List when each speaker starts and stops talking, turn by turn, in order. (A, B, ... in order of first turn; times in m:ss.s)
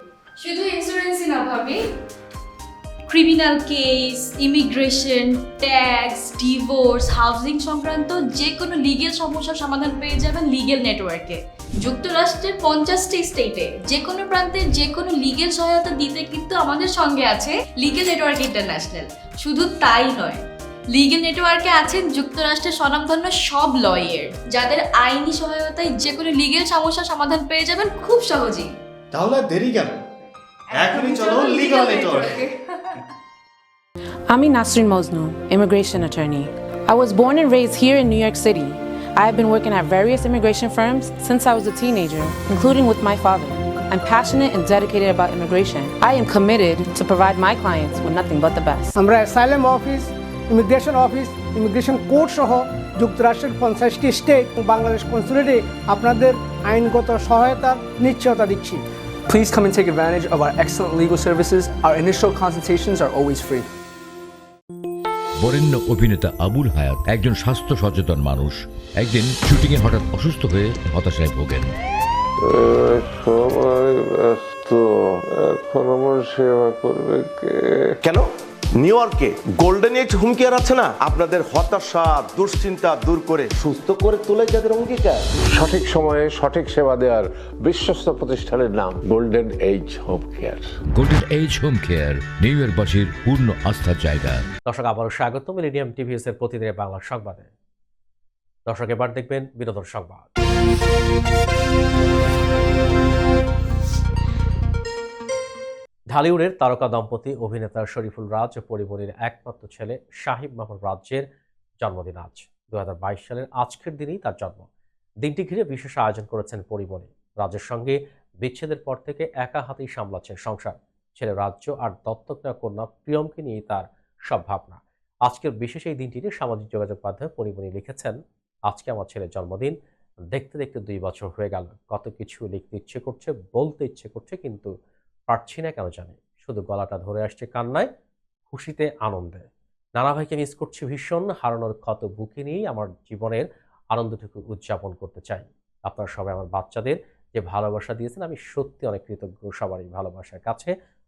0:00.4-0:01.8 A
0:03.1-0:28.7 A
0:29.1-0:29.9 B
0:30.7-0:32.4 B
0:31.0-0:32.9 A
0:34.3-0:48.9 C
0:48.9-0:58.8 D
0:59.3-1:03.6 E
1:05.4-1:11.7 F
1:12.4-1:18.0 G
1:18.8-1:25.2 H
1:25.5-1:30.7 G
1:31.0-1:34.4 F
1:34.7-1:37.5 I
1:38.7-1:40.2 I
1:46.1-1:51.3 I
1:51.8-1:54.7 I
1:55.2-2:09.7 I
2:10.3-2:14.7 I
2:15.3-2:17.9 I
2:18.5-2:19.4 I
2:20.0-2:30.7 I